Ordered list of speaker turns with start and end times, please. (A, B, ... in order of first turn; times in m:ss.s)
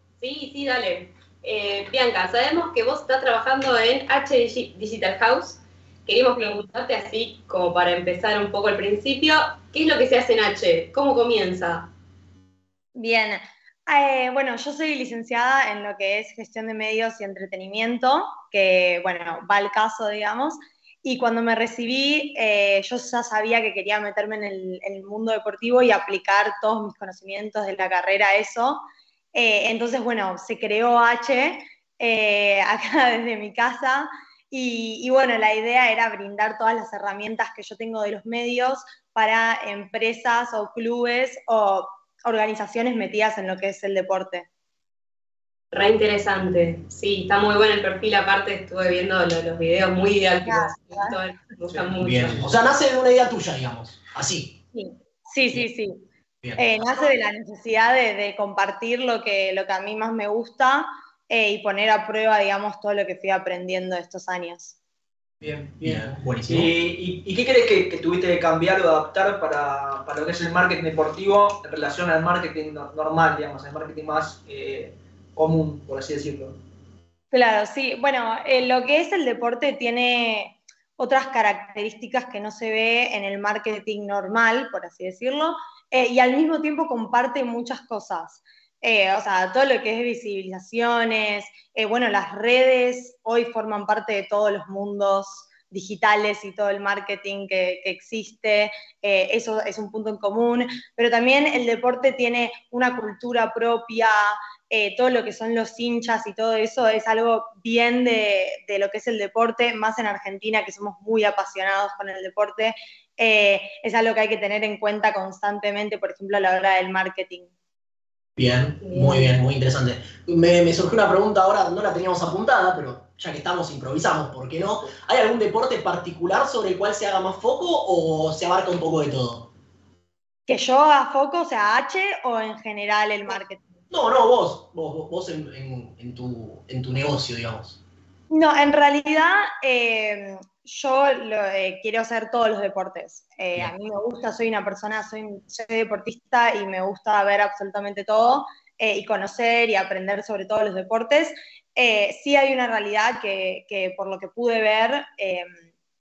0:00.2-0:11.9 A
0:13.0-0:44.5 B
0:45.7-0:52.4 A
0:50.4-0:51.2 B
0:51.7-0:52.4 C
0:52.0-0:54.6 D
0:54.7-0:56.0 B
0:56.6-1:04.8 B
1:05.4-1:16.6 C
1:05.8-1:06.7 D
1:17.3-1:57.5 B
1:58.4-2:09.5 D
1:58.8-1:59.4 A
2:10.5-2:13.7 B
2:13.9-2:17.8 D
2:18.3-2:35.6 B